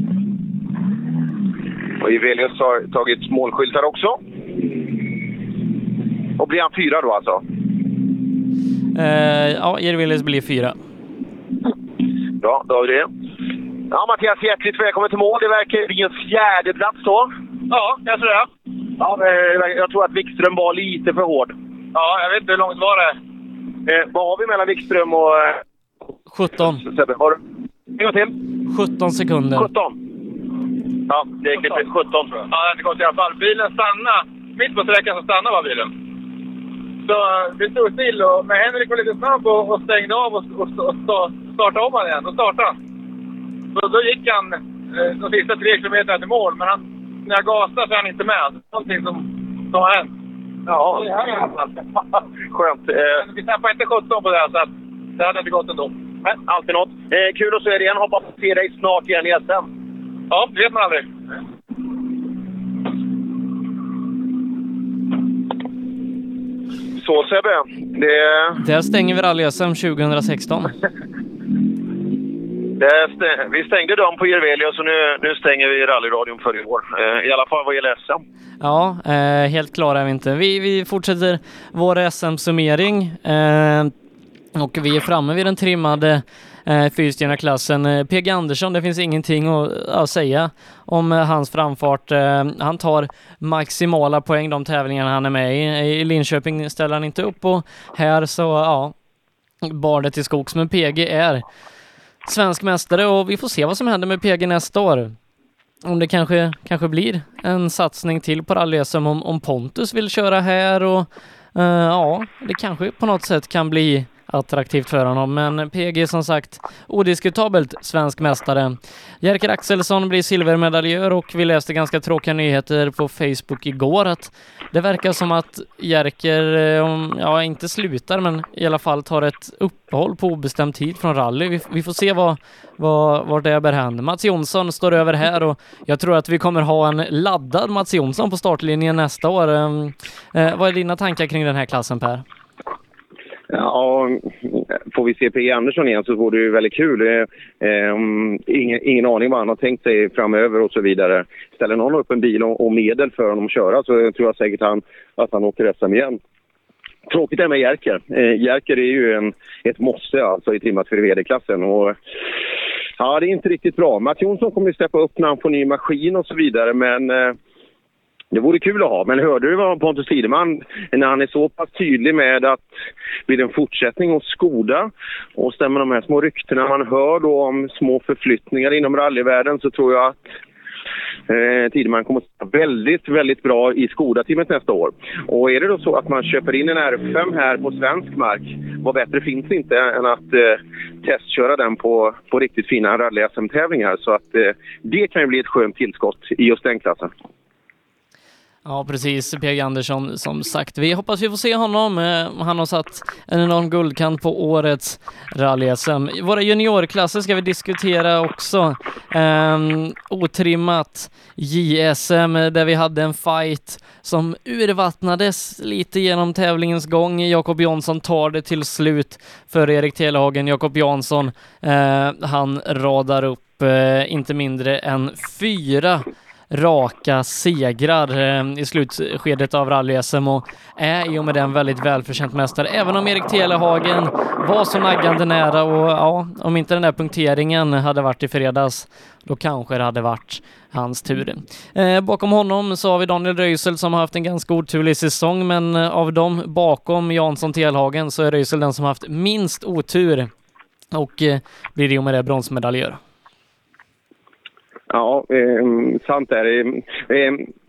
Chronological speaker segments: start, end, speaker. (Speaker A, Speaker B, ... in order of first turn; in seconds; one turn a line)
Speaker A: 2.0-4.2
Speaker A: 6.4-7.4
Speaker B: 8.9-10.8
Speaker A: 12.4-13.1
Speaker A: 13.9-17.3
Speaker C: 17.7-18.4
Speaker A: 19.0-21.6
Speaker C: 21.9-23.1
Speaker A: 23.9-25.6
Speaker B: 26.3-26.8
Speaker A: 26.8-27.4
Speaker A: 28.0-28.4
Speaker B: 28.7-29.7
Speaker A: 29.6-30.0
Speaker A: 31.1-32.5
Speaker C: 32.5-35.9
Speaker C: 37.1-42.8
Speaker C: 43.8-50.1
Speaker A: 50.7-51.1
Speaker C: 51.0-51.7
Speaker A: 52.5-53.2
Speaker C: 53.2-55.9
Speaker A: 56.3-59.7
Speaker C: 60.3-61.1
Speaker A: 67.0-68.6
Speaker B: 68.6-70.7
Speaker A: 72.8-78.2
Speaker B: 78.6-83.9
Speaker B: 84.5-98.9
Speaker B: 99.6-101.4
Speaker B: 102.2-105.2
Speaker B: 105.8-142.2
Speaker A: 143.5-156.2
Speaker A: 157.1-162.0
Speaker A: 163.0-167.4
Speaker A: 168.3-172.7
Speaker A: 173.3-180.3
Speaker A: 181.3-197.1
Speaker B: 198.7-250.3
Speaker B: 250.9-253.0
Speaker A: 254.9-257.5